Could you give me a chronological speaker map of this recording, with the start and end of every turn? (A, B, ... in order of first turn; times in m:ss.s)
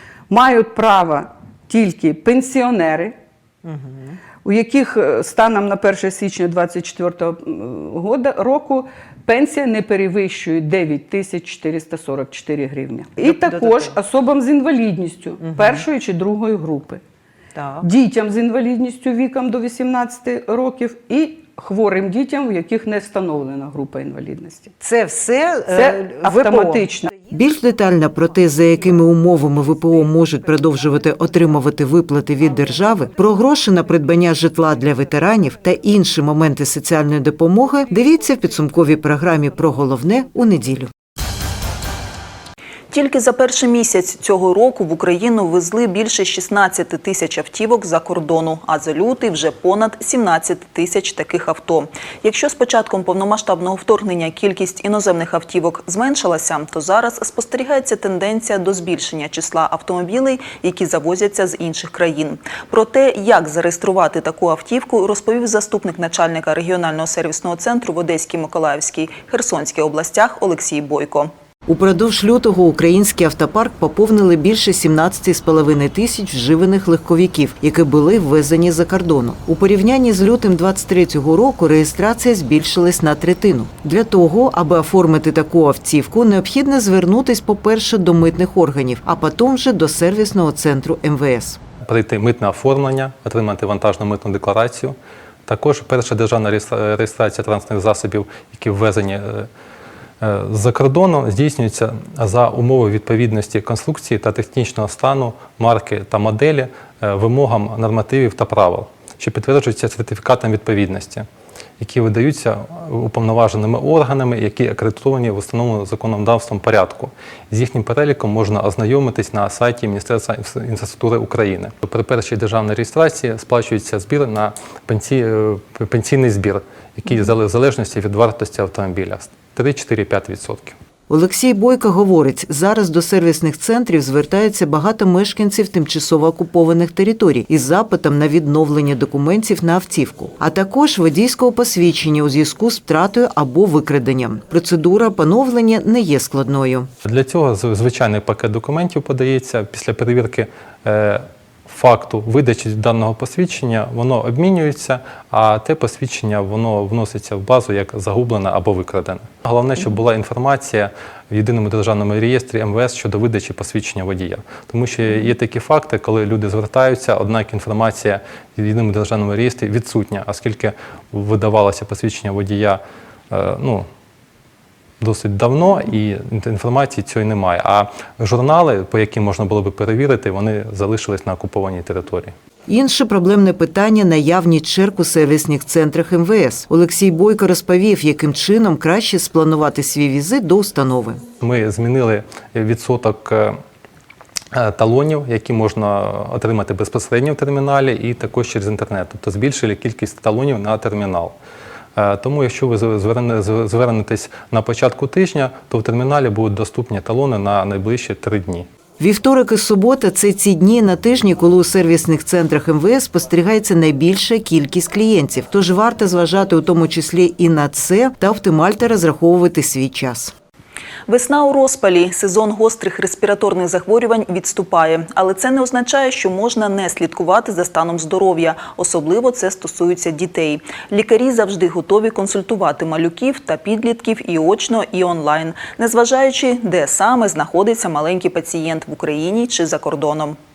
0:00.3-0:03.2 A
0:03.7-0:04.1 B
0:04.4-0:17.0 A
0:13.2-0:13.9 B
0:15.4-0:15.8 B
0:17.6-0:17.8 B
0:17.8-0:24.7 A
0:24.8-0:40.9 B
0:25.7-0:27.1 A
0:42.9-1:11.3 C
1:11.7-1:31.6 B
1:31.9-1:35.0 D
1:35.5-1:39.5 D
1:40.2-1:51.2 D
1:51.8-2:10.8 D
2:11.1-2:26.9 B
2:27.0-2:52.8 D
2:53.3-2:53.9 D
2:55.0-3:02.3 D
3:02.7-3:11.2 B
3:11.4-3:13.6 D
3:14.5-3:21.4 D
3:22.0-3:28.7 D
3:29.0-3:40.3 B
3:41.1-4:00.4 C